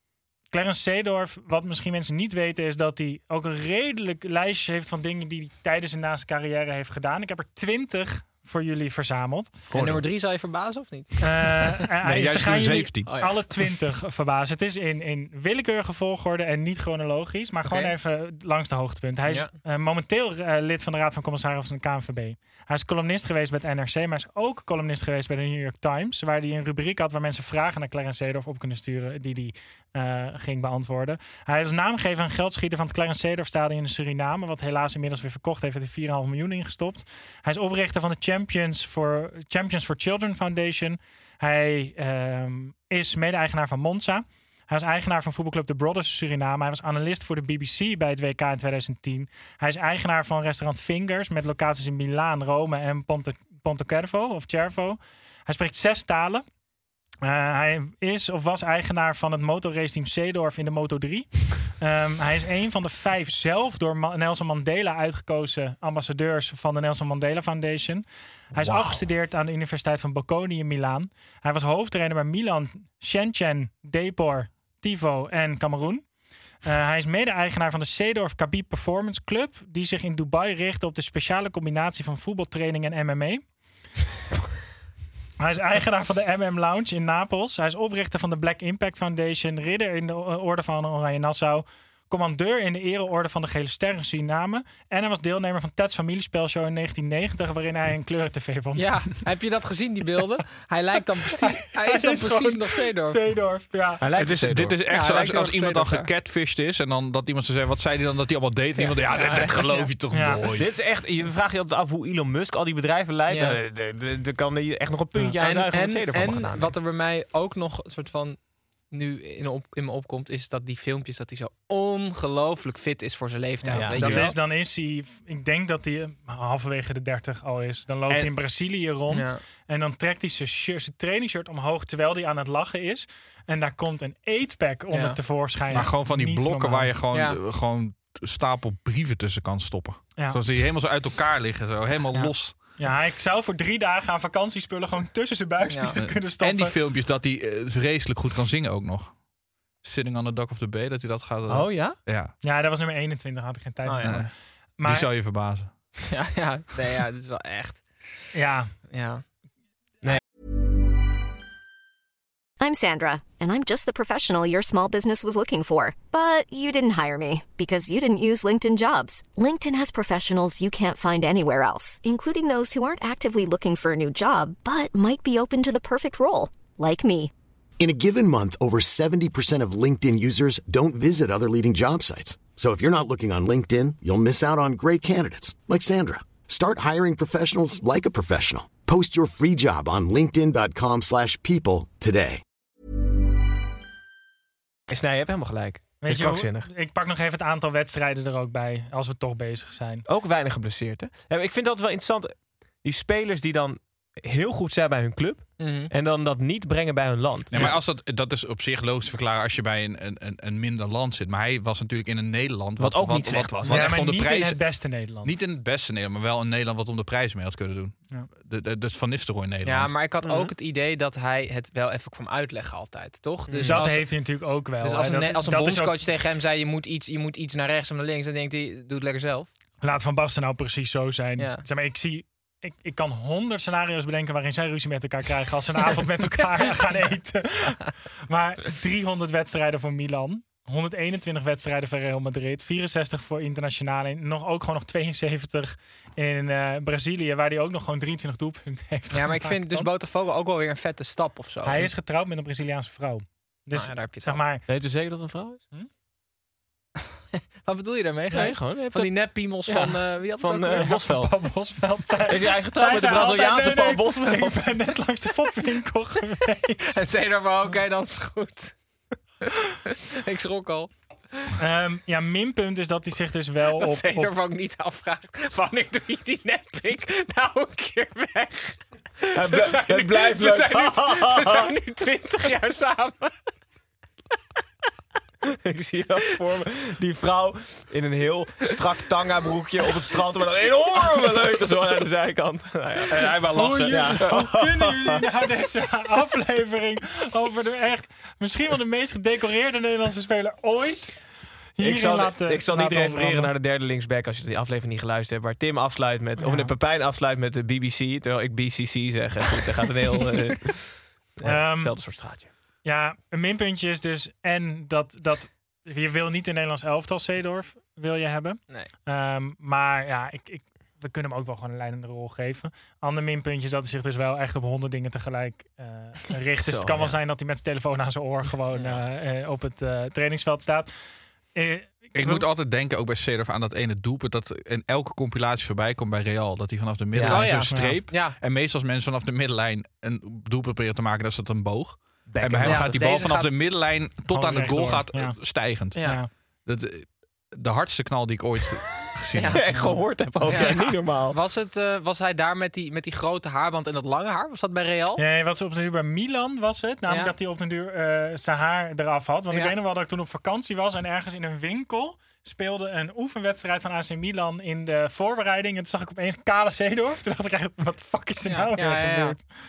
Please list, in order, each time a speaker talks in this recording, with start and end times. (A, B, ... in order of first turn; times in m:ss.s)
0:00.5-0:09.5 A
0:09.7-0:10.1 B
0:09.7-0:11.9 C
0:11.2-0:56.4 A
0:12.0-0:13.1 D
0:13.1-0:13.4 C
0:17.7-0:17.9 C
0:57.2-1:16.0 A
1:08.5-1:09.0 B
1:16.6-1:23.4 A
1:25.4-1:38.9 A
1:38.8-1:43.2 C
1:41.3-1:44.0 A
1:44.0-1:44.8 B
1:44.2-1:50.7 D
1:44.9-1:46.1 C
1:48.8-1:49.9 C
1:50.1-1:50.4 A
1:50.6-1:56.8 B
1:53.3-1:53.6 C
1:55.4-1:58.4 C
1:58.9-2:04.4 C
2:03.6-2:16.9 A
2:03.7-2:04.2 B
2:09.1-2:09.4 C
2:14.9-2:15.9 C
2:15.7-2:22.6 D
2:17.1-2:17.4 C
2:22.8-2:26.8 A
2:25.7-2:26.0 C
2:25.9-2:29.1 D
2:29.8-2:32.3 D
2:31.5-2:32.0 B
2:32.4-2:34.2 A
2:33.8-2:34.2 C
2:34.0-2:34.3 D
2:34.8-2:35.1 A
2:34.8-2:35.7 D
2:36.1-2:37.8 C
2:38.3-2:38.7 A
2:38.9-2:39.2 C
2:42.6-2:57.3 E
2:57.8-3:12.4 F
3:14.9-3:16.7 B
3:16.0-3:20.0 A
3:20.1-3:27.8 B
3:25.6-3:25.9 C
3:27.5-3:34.6 D
3:32.8-3:34.0 B
3:33.6-3:35.4 A
3:35.2-3:40.0 D
3:39.6-3:44.1 C
3:43.5-3:43.9 B
3:43.6-3:46.0 A
3:44.8-3:49.5 C
3:49.8-4:09.9 A
4:09.1-4:11.9 C
4:11.6-4:14.6 A
4:13.7-4:14.4 C
4:14.7-4:15.6 B
4:17.6-4:21.0 C
4:18.3-4:18.6 A
4:18.3-4:21.3 B
4:20.7-4:27.0 A
4:22.2-4:24.8 B
4:26.8-4:28.8 C
4:29.7-4:30.9 C
4:31.6-4:34.3 A
4:33.8-4:43.3 C
4:39.3-4:41.7 B
4:45.4-4:53.3 B
4:53.1-4:54.3 D
4:53.5-5:01.2 A
4:53.9-4:55.3 B
5:01.8-5:03.5 A
5:01.8-5:12.5 B
5:06.4-5:06.7 A
5:11.4-5:11.9 A
5:12.8-5:30.9 A
5:26.6-5:27.2 B
5:28.7-5:29.0 C
5:31.5-5:32.5 A
5:32.2-5:46.1 D
5:37.1-5:37.5 B
5:37.3-5:38.4 C
5:37.7-5:38.0 A
5:42.3-5:42.9 B
5:42.6-5:43.6 C
5:44.2-5:45.4 A
5:45.9-5:46.2 C
5:46.0-5:46.3 A
5:46.7-5:49.6 D
5:49.3-5:49.6 C
5:49.4-5:51.4 B
5:50.4-5:55.2 C
5:55.2-6:09.4 A
6:08.4-6:09.4 C